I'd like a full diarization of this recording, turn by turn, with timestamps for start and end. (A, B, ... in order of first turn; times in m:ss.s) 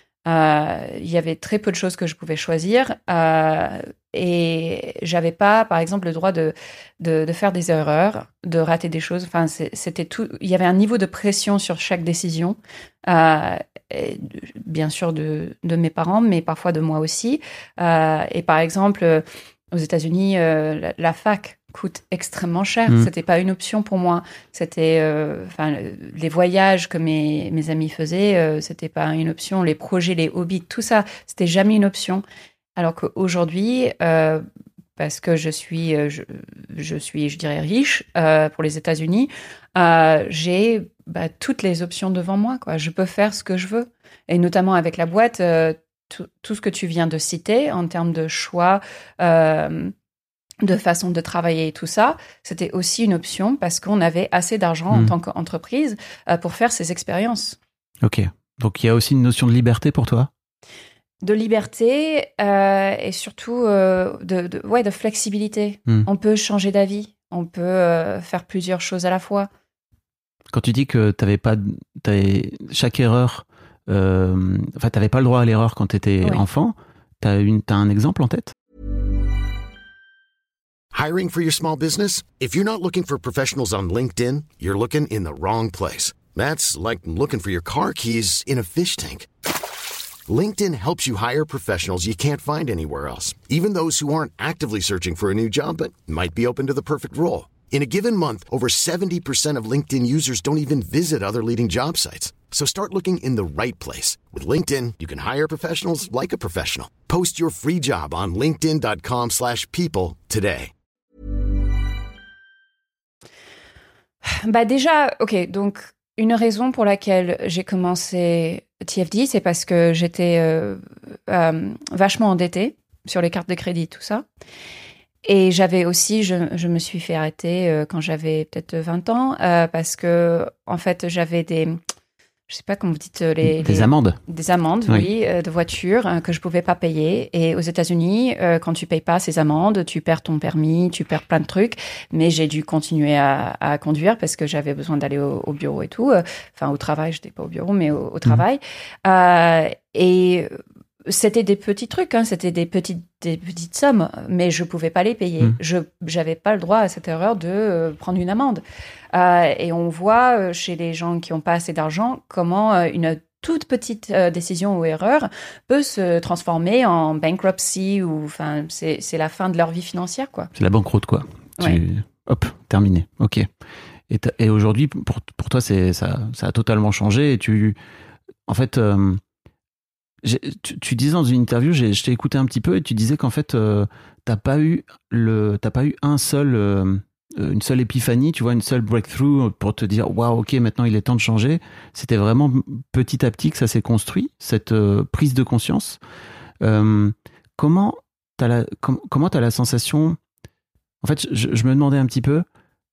0:00.3-0:32.2 A
0:32.8-0:34.4 A
0:35.0-0:49.9 A
0:50.6-0:57.6 A
0:58.0-1:00.3 B
1:01.2-1:09.5 A
1:10.5-1:18.5 B
1:20.9-1:29.3 C
1:30.3-1:50.7 C
1:54.2-2:04.3 A
2:05.2-2:11.8 A
2:12.5-2:30.5 A
2:13.4-2:14.2 B
2:31.0-2:38.6 A
2:39.1-2:50.5 A
2:50.6-2:53.5 B
2:54.1-2:57.8 B
2:58.5-2:59.2 B
3:00.2-3:16.0 B
3:16.6-3:20.2 B
3:21.0-3:22.4 B